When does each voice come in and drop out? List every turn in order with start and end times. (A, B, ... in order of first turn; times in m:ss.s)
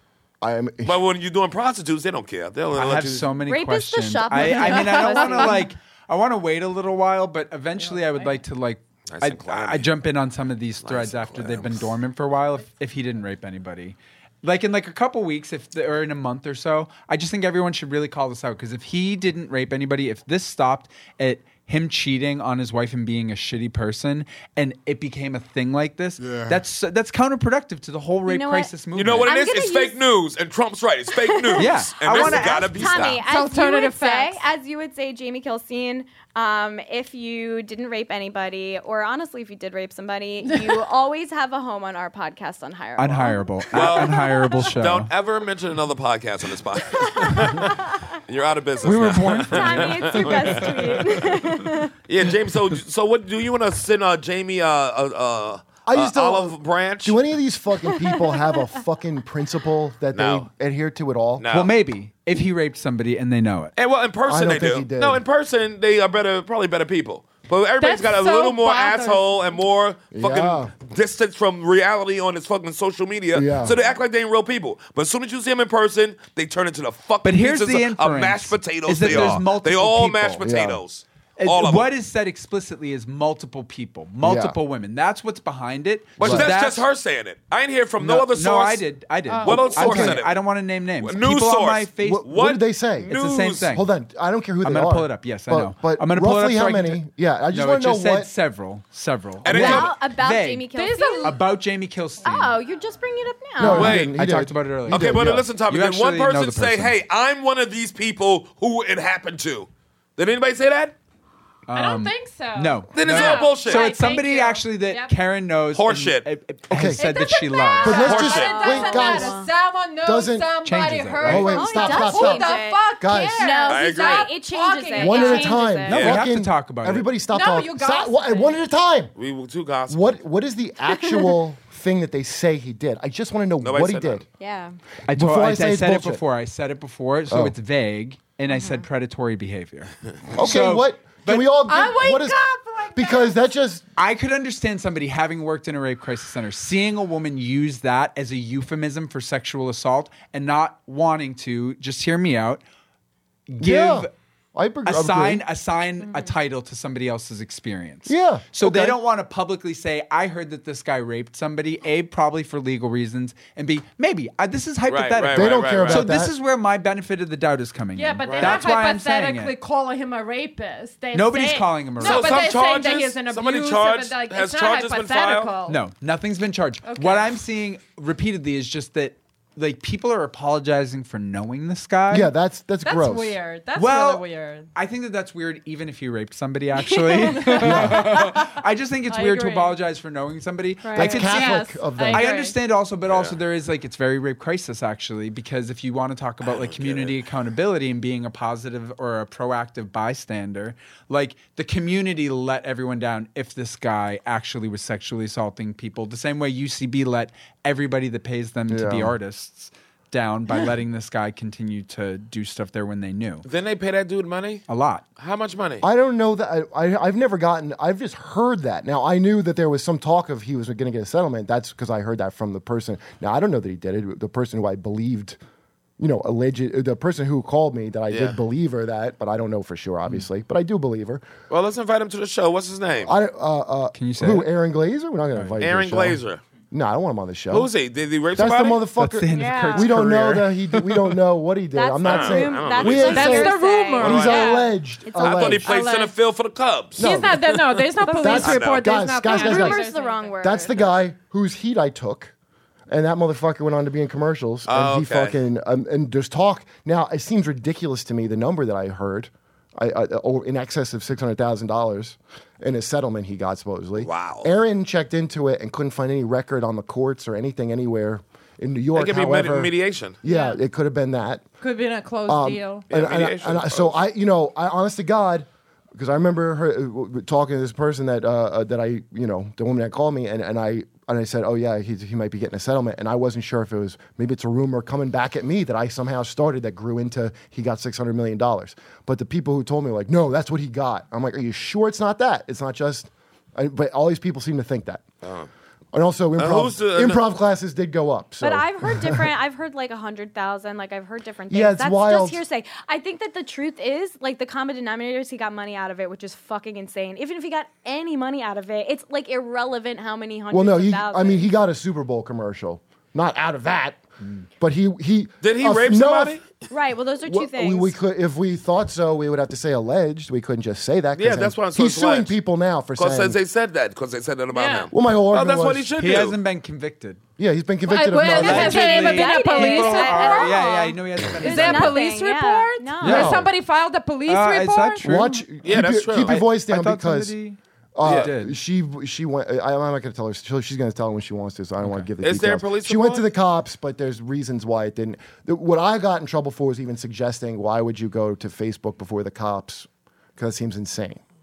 0:00.4-0:01.0 A
0:00.8-0:03.3 B
0:02.7-0:29.3 C
0:03.4-0:05.7 D
0:04.3-0:05.6 E
0:07.8-0:08.4 E
0:09.1-0:09.9 B
0:10.8-0:11.9 B
0:28.3-0:28.7 D
0:28.9-0:33.2 B
0:29.2-0:30.0 D
0:31.1-0:44.0 D
0:31.6-0:33.1 C
0:33.2-0:34.4 E
0:43.0-0:45.1 C
0:43.7-0:50.7 B
0:47.0-0:47.8 D
0:48.8-0:50.7 C
0:48.8-0:51.3 A
0:49.5-0:51.9 D
0:52.0-0:57.2 B
0:55.8-1:01.4 A
1:00.1-1:00.5 B
1:01.4-1:01.7 B
1:01.5-1:03.7 C
1:03.8-1:21.9 B
1:04.2-1:05.2 A
1:07.8-1:09.2 E
1:10.1-1:10.7 A
1:13.3-1:13.8 A
1:17.2-1:20.4 C
1:19.0-1:19.3 A
1:20.4-1:20.8 A
1:21.4-1:26.9 C
1:24.2-1:24.6 A
1:26.2-1:28.8 B
1:26.2-1:26.5 A
1:28.0-1:32.4 C
1:29.3-1:29.7 E
1:29.4-1:30.4 B
1:29.5-1:30.2 A
1:31.0-1:33.7 B
1:32.0-1:33.1 A
1:33.0-1:33.9 C
1:33.7-1:38.3 A
1:34.6-1:42.6 C
1:39.4-1:40.0 B
1:39.5-1:41.4 D
1:39.5-1:39.8 A
1:40.7-1:41.4 E
1:42.2-1:44.0 D
1:43.6-1:45.5 A
1:43.6-1:47.0 C
1:43.6-1:44.1 B
1:44.9-1:50.9 B
1:51.7-1:58.2 C
1:51.7-1:55.1 E
1:52.9-1:54.0 B
1:55.7-1:56.3 B
1:56.7-1:57.0 A
1:56.9-2:05.7 E
1:57.8-1:59.4 A
1:57.9-1:58.7 B
1:58.1-1:59.5 D
2:00.0-2:00.5 A
2:00.6-2:01.6 C
2:01.2-2:03.6 A
2:01.5-2:02.8 D
2:03.4-2:06.0 D
2:03.7-2:04.4 B
2:04.9-2:09.1 A
2:05.9-2:07.1 C
2:05.9-2:06.2 B
2:07.3-2:08.6 E
2:09.2-2:10.1 B
2:09.9-2:14.2 A
2:10.9-2:11.3 D
2:13.6-2:14.2 B
2:14.4-2:14.8 D
2:15.1-2:21.5 C
2:15.1-2:16.2 A
2:17.3-2:17.5 A
2:18.5-2:18.8 D
2:20.3-2:22.4 A
2:21.6-2:23.4 E
2:22.9-2:23.8 A
2:24.0-2:32.6 C
2:33.5-2:34.1 C
2:33.6-2:35.4 A
2:34.8-2:49.6 C
2:38.1-2:39.0 A
2:44.9-2:46.1 B
2:45.3-2:46.3 A
2:48.0-2:55.8 E
2:48.2-2:48.6 B
2:51.1-2:52.4 C
2:52.0-2:55.5 B
2:55.7-3:02.3 C
2:56.8-2:57.3 E
3:02.1-3:03.4 A
3:02.8-3:04.7 E
3:03.7-3:33.4 C
3:07.2-3:09.8 E
3:07.6-3:08.2 A
3:10.8-3:12.6 E
3:11.0-3:12.2 A
3:13.1-3:13.4 B
3:16.4-3:17.2 B
3:28.7-3:29.2 A
3:33.4-3:34.6 B
3:34.7-3:35.0 C
3:35.2-3:35.8 B
3:35.8-3:45.4 A
3:46.0-3:51.2 A
3:48.1-3:48.4 B
3:51.5-3:53.1 B
3:53.0-3:57.7 A
3:53.9-3:54.5 C
3:55.3-3:55.6 C
3:55.6-3:56.4 B
3:57.5-3:58.8 B
3:58.3-4:05.7 A
3:59.0-4:01.0 C
3:59.3-3:59.9 D
4:01.7-4:05.6 D
4:02.0-4:04.5 B
4:03.1-4:04.7 E
4:05.1-4:09.0 B
4:05.6-4:06.1 E
4:07.0-4:07.5 A
4:07.0-4:10.4 E
4:08.0-4:08.4 D
4:08.1-4:09.8 A
4:09.2-4:11.0 D
4:10.4-4:12.3 A
4:12.9-4:31.5 A
4:14.7-4:15.4 B
4:24.0-4:24.5 B
4:28.9-4:30.2 B
4:30.2-4:30.6 E
4:31.6-4:32.8 E
4:32.3-4:55.0 A
4:32.9-4:34.0 B
4:55.2-4:55.5 B
4:55.9-4:59.3 A
4:56.4-4:57.2 B
4:58.4-5:11.5 D
5:01.5-5:02.4 A
5:10.5-5:14.0 A
5:14.6-5:16.4 A
5:15.4-5:16.4 B
5:16.7-5:18.0 D
5:17.2-5:23.4 A
5:21.2-5:22.4 B
5:23.0-5:26.4 B
5:24.5-5:24.9 E
5:24.9-5:25.9 A
5:26.0-5:27.2 C
5:27.4-5:28.9 A
5:27.9-5:30.7 E
5:28.3-5:32.0 C
5:28.4-5:33.4 D
5:31.4-5:35.1 E
5:33.0-5:33.4 C
5:33.0-5:33.5 A
5:34.2-5:38.6 C
5:35.0-5:37.4 A
5:35.6-5:36.4 B
5:37.9-5:51.2 A
5:38.0-5:38.3 B
5:41.8-5:42.1 C
5:42.2-5:43.2 B